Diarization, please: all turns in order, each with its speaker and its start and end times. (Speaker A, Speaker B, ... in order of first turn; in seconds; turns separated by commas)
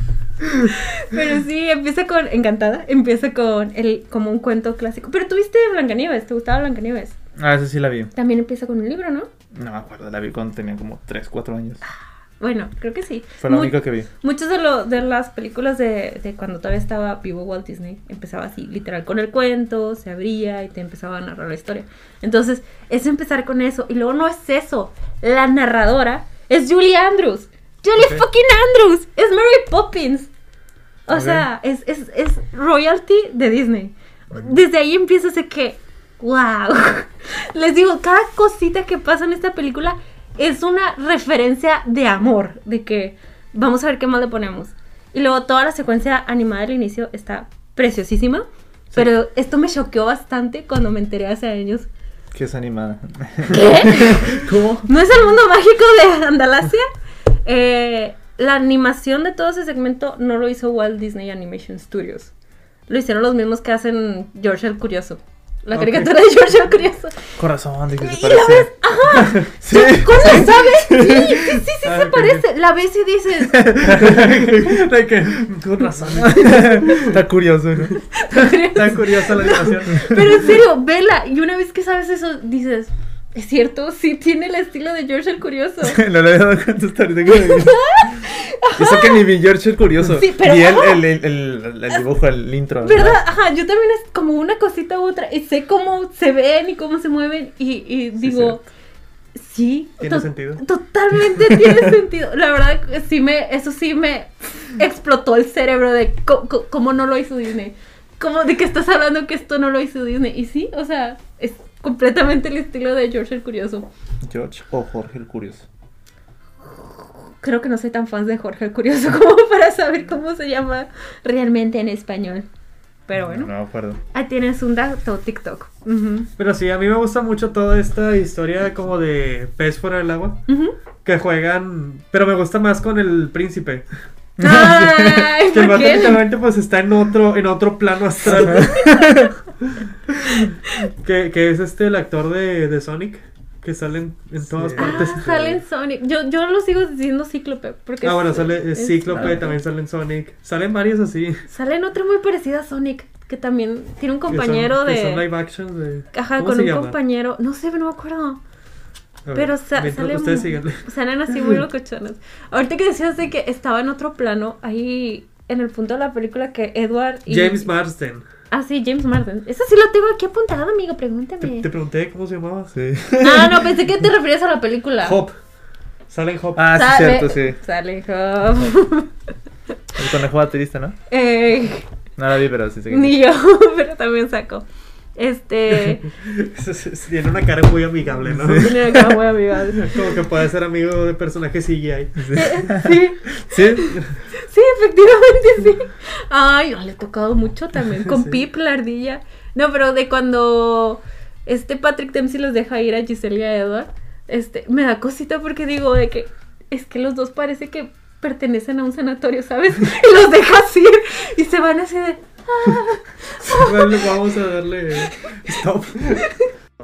Speaker A: 0.6-7.2, Speaker B: 7.4-8.1, Speaker A: 8.1-9.3, Speaker B: 9.5-11.8, Speaker A: 11.8-30.3, Speaker B: 13.4-14.1, Speaker A: 31.1-51.9, Speaker B: 31.1-31.5, Speaker B: 52.3-54.9, Speaker A: 53.5-56.9, Speaker A: 57.5-62.3, Speaker A: 62.9-67.3, Speaker C: 65.7-66.1, Speaker B: 67.4-68.7, Speaker A: 68.0-73.8, Speaker B: 69.3-71.6, Speaker C: 71.8-72.4, Speaker B: 73.5-74.7, Speaker C: 73.8-77.2, Speaker B: 76.2-78.0, Speaker A: 76.3-77.0, Speaker A: 78.1-86.0, Speaker C: 78.4-80.5, Speaker B: 85.8-88.2, Speaker A: 87.3-89.3, Speaker B: 88.8-93.2, Speaker A: 90.1-91.0, Speaker A: 92.8-98.6, Speaker B: 98.2-98.6, Speaker A: 99.4-113.9, Speaker C: 100.0-100.6, Speaker B: 114.2-115.7, Speaker A: 116.7-122.5, Speaker A: 123.1-123.5, Speaker B: 123.2-124.0, Speaker A: 124.1-126.3, Speaker C: 126.4-130.4, Speaker A: 130.5-130.7, Speaker C: 131.1-133.9, Speaker B: 134.4-135.3, Speaker A: 134.4-136.2, Speaker C: 135.4-145.6, Speaker B: 138.4-139.3, Speaker A: 138.5-139.3, Speaker B: 144.5-145.3, Speaker A: 144.8-149.6, Speaker C: 148.0-151.4, Speaker B: 149.1-149.4, Speaker A: 151.5-155.3, Speaker C: 154.3-157.0, Speaker A: 156.1-158.4, Speaker C: 159.3-161.6, Speaker A: 159.3-167.7, Speaker C: 167.3-168.3, Speaker A: 168.5-171.7, Speaker C: 171.4-172.8, Speaker B: 172.7-173.8, Speaker A: 173.2-175.2, Speaker C: 175.0-175.3, Speaker C: 176.1-176.7, Speaker B: 176.6-177.6, Speaker A: 176.7-179.1, Speaker B: 180.0-181.0, Speaker A: 181.1-181.9, Speaker B: 182.2-183.2, Speaker A: 182.9-186.1, Speaker C: 186.1-189.2, Speaker B: 188.3-188.8, Speaker A: 188.5-190.1, Speaker C: 189.7-192.3, Speaker B: 192.2-194.0, Speaker A: 192.3-214.2, Speaker C: 198.1-198.4, Speaker C: 213.5-216.3, Speaker A: 215.1-215.4, Speaker A: 216.2-216.5